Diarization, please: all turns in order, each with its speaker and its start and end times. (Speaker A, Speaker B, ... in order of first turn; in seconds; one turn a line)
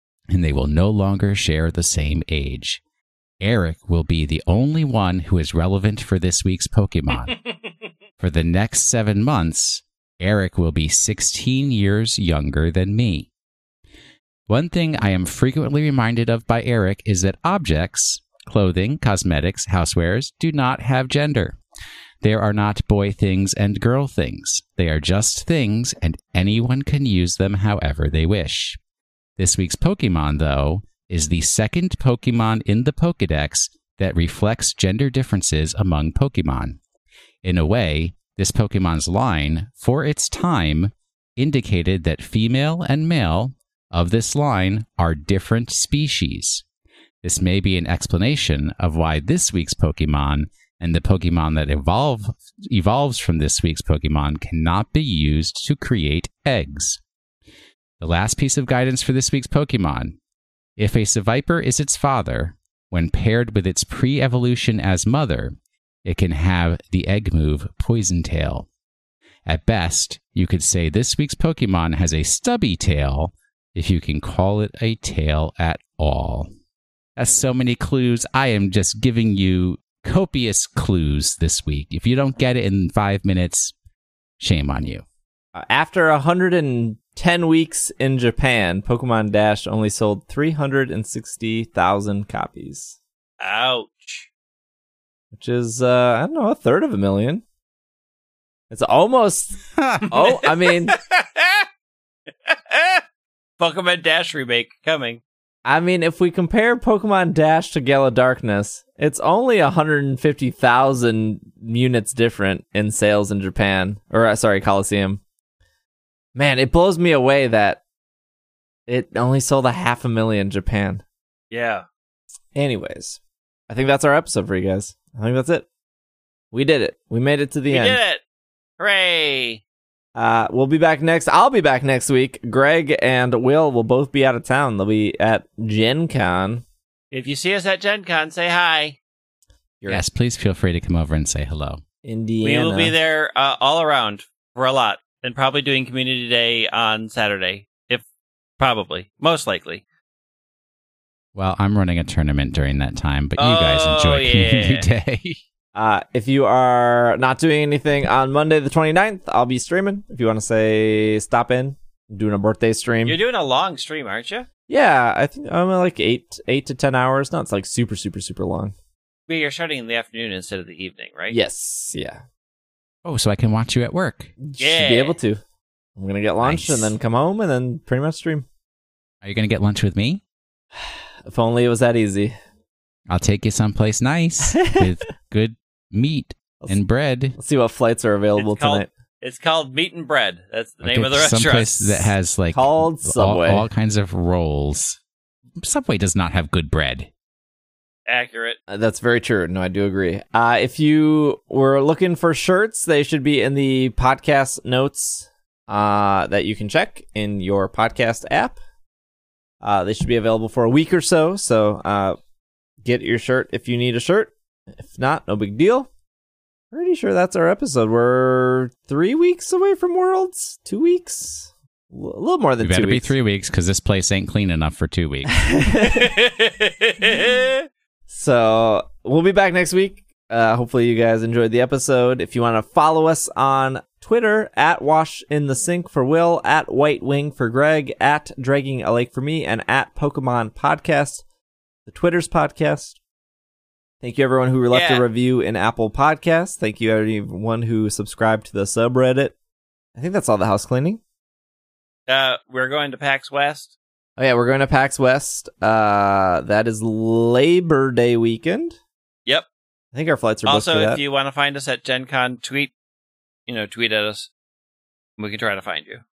Speaker A: 0.3-2.8
Speaker A: 3.4-7.3
Speaker A: 8.2-13.3
Speaker A: 14.5-21.6
Speaker A: 22.2-28.8
Speaker A: 29.4-36.8
Speaker A: 37.4-46.6
Speaker A: 47.2-57.0
Speaker A: 58.0-60.2
Speaker A: 60.8-68.7
Speaker A: 69.5-76.5
Speaker A: 77.2-83.7
Speaker A: 84.4-85.0
Speaker B: 85.5-93.0
Speaker C: 93.4-94.3
Speaker B: 95.3-97.4
Speaker B: 98.7-101.0
Speaker A: 99.8-100.0
Speaker C: 100.1-101.7
Speaker C: 102.5-103.0
Speaker C: 103.6-105.2
Speaker B: 105.7-115.2
Speaker B: 116.3-117.8
Speaker B: 118.9-121.0
Speaker C: 121.5-121.8
Speaker B: 122.5-125.7
Speaker B: 126.5-128.0
Speaker C: 127.7-128.2
Speaker C: 128.8-129.6
Speaker B: 130.1-136.6
Speaker C: 137.1-139.0
Speaker A: 139.9-141.8
Speaker B: 142.0-142.9
Speaker C: 142.4-148.0
Speaker C: 148.6-149.8
Speaker A: 151.3-155.4
Speaker C: 153.4-154.9
Speaker B: 155.7-163.2
Speaker C: 163.0-164.5
Speaker B: 164.7-168.7
Speaker C: 169.3-171.3
Speaker B: 171.3-172.2
Speaker A: 173.0-174.3
Speaker B: 174.4-175.4
Speaker C: 174.6-175.2
Speaker B: 176.0-178.4
Speaker A: 176.4-176.9
Speaker A: 179.2-180.2
Speaker B: 180.8-182.3
Speaker A: 183.1-187.4
Speaker B: 184.5-184.8
Speaker B: 187.3-188.9
Speaker C: 188.4-192.1
Speaker A: 190.8-195.0
Speaker B: 192.5-193.7
Speaker A: 195.6-197.1
Speaker C: 198.1-198.6
Speaker B: 198.7-208.6
Speaker B: 209.6-212.2
Speaker B: 212.8-215.9
Speaker B: 216.7-223.1
Speaker A: 222.6-225.5
Speaker B: 225.3-226.1
Speaker C: 225.8-227.7
Speaker B: 228.1-241.2
Speaker B: 241.8-243.0
Speaker B: 244.0-249.3
Speaker C: 244.7-245.1
Speaker B: 249.9-251.0
Speaker C: 252.1-253.7
Speaker B: 254.2-258.8
Speaker B: 259.9-261.0
Speaker C: 260.4-262.7
Speaker C: 263.5-264.3
Speaker C: 265.2-266.0